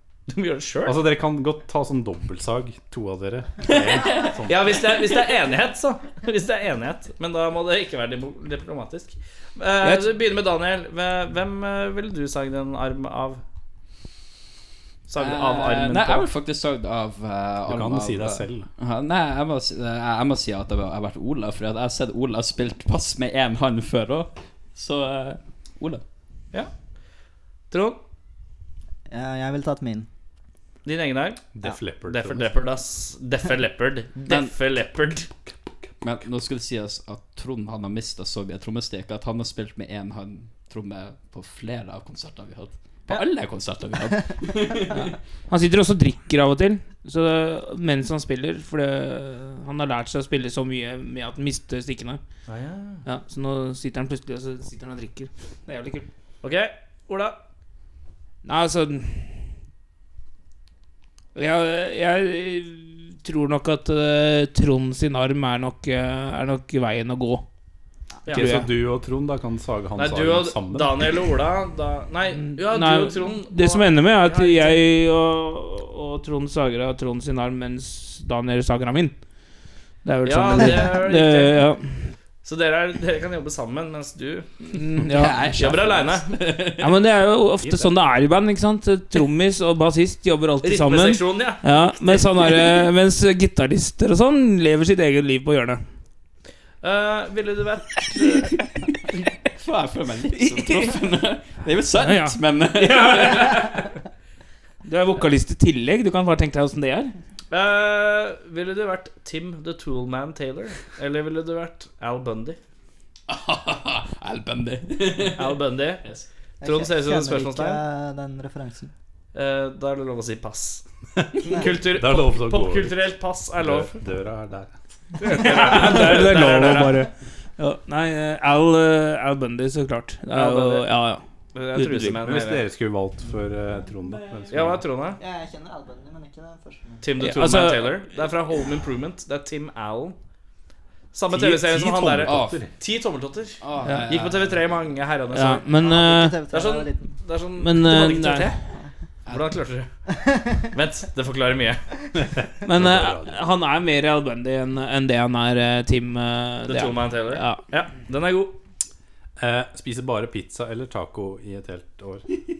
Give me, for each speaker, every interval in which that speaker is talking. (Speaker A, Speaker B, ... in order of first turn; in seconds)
Speaker A: 0.3-1.0, 4.5-13.4, 15.1-16.3, 27.7-28.0, 30.8-35.3, 52.5-53.0, 56.4-57.4, 70.0-74.8, 80.2-81.6, 82.4-84.8, 85.5-86.4, 90.6-92.6, 96.8-98.5, 107.5-112.6, 115.3-116.0, 116.6-117.8, 119.3-120.8, 121.4-124.0, 125.2-127.0, 130.3-130.9, 131.5-132.6, 134.5-135.2, 137.0-140.2, 141.1-145.6, 146.5-148.6, 149.2-150.1, 150.7-151.8, 156.6-158.6
Speaker B: 0.8-4.9, 17.6-18.7, 31.5-32.6, 68.3-71.2, 87.6-87.9, 121.2-124.8, 132.2-134.8, 141.3-142.7, 152.1-153.4, 159.4-162.2
Speaker C: 3.7-4.3, 15.2-26.0, 34.2-34.5, 36.0-45.1, 85.0-87.0, 99.5-103.8, 113.3-116.2, 142.2-142.7, 143.6-144.6
Speaker D: 9.8-10.1, 44.9-52.2, 53.0-56.1, 58.4-59.5, 61.3-67.5, 68.3-68.7, 72.3-79.2, 80.0-82.1, 84.7-85.6, 86.8-95.8, 98.2-98.5, 100.3-101.0, 101.9-103.9, 104.8-107.1, 125.2-131.2, 131.7-132.2, 137.2-138.3, 143.8-144.2, 145.3-146.4, 147.6-148.7, 152.6-157.6
Speaker E: 29.1-30.1, 116.6-118.9, 135.2-137.1, 145.7-147.2, 150.1-150.6